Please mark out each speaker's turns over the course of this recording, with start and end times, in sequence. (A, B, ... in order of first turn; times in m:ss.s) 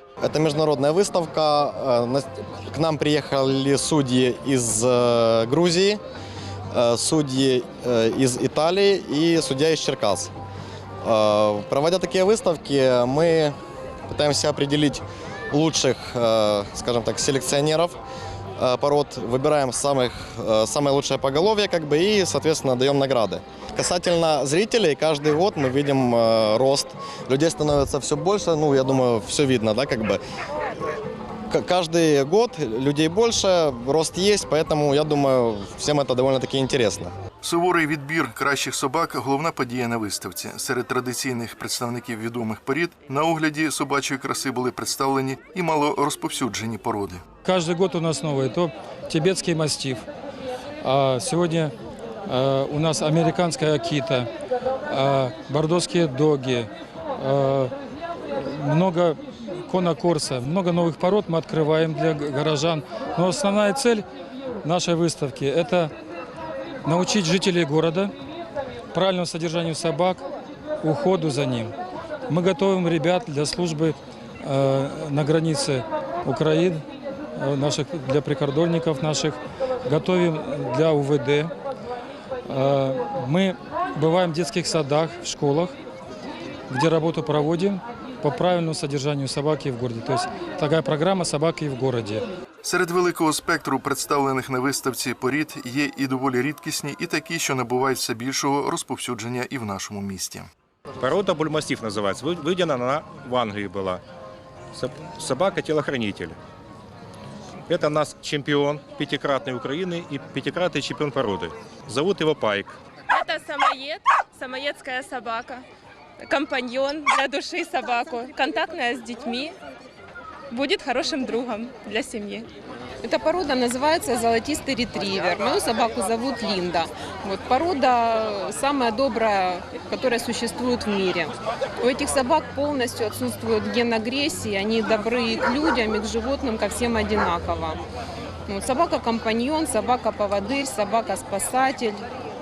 0:00.2-0:06.0 A
0:06.7-0:10.3 A
0:11.0-0:13.6 A
0:14.1-0:18.0 A
0:18.6-0:30.2 A
0:31.5-0:37.1 A
0:37.4-0:47.2 B
0:47.4-0:50.0 C
0:50.8-0:51.7 C
0:52.3-0:54.3 C
0:54.9-0:57.7 C
0:58.3-1:04.0 C
1:04.6-1:05.9 C
1:06.8-1:08.1 C
1:08.9-1:10.2 C
1:10.8-1:11.7 C
1:12.3-1:16.8 C
1:17.4-1:21.5 C
1:22.5-1:25.7 C
1:26.7-1:32.2 C
1:32.6-1:40.5 B
1:41.0-1:44.0 D
1:44.7-1:46.4 D
1:47.7-1:52.8 D
1:53.1-1:55.6 E
1:56.2-1:59.6 E
2:00.5-2:02.5 E
2:03.0-2:17.8 F
2:18.5-2:22.0 F